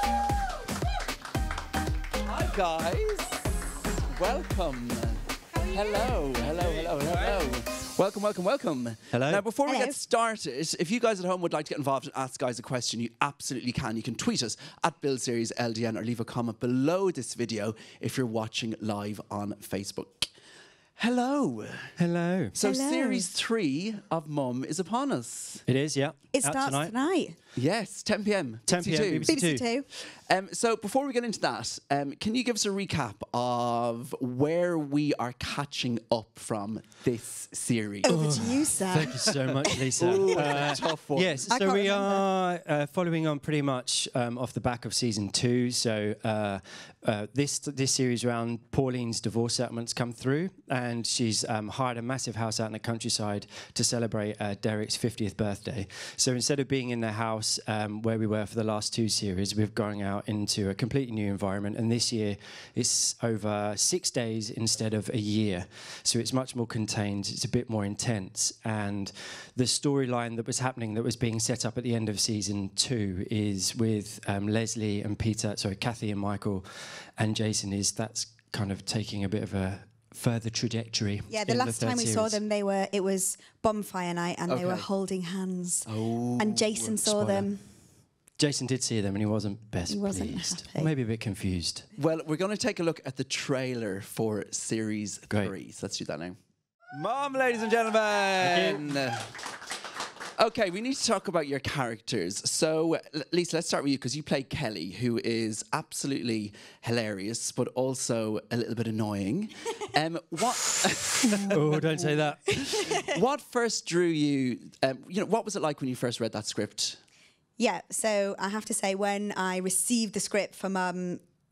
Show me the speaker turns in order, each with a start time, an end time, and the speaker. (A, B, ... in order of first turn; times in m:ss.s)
0:02.3-0:03.4 A
0:04.1-0:20.3 A
0:09.1-0:09.4 B
0:09.6-0:10.0 C
0:21.0-0:21.9 A
0:22.0-0:22.5 B
0:22.5-0:25.6 A
0:22.6-0:23.2 C
0:25.6-0:26.9 B
0:26.3-0:27.4 C
0:27.6-0:29.3 A
0:28.7-0:29.6 B
0:29.2-0:29.8 C
0:29.9-0:38.2 A
0:38.0-0:40.4 C
0:38.1-1:16.6 B
0:39.2-0:41.4 A
0:41.5-0:42.2 C
1:17.2-1:22.4 B
1:21.3-1:25.9 C
1:24.5-1:24.8 A
1:25.8-1:27.0 A
1:26.4-1:27.6 C
1:27.0-1:27.5 B
1:28.4-1:31.8 B
1:29.9-1:30.9 C
1:32.0-1:36.4 A
1:36.9-1:39.3 A
1:38.4-1:38.9 B
1:40.4-1:52.0 A
1:51.3-1:52.5 B
1:52.6-1:57.0 A
1:52.6-1:52.9 C
1:57.6-2:01.2 C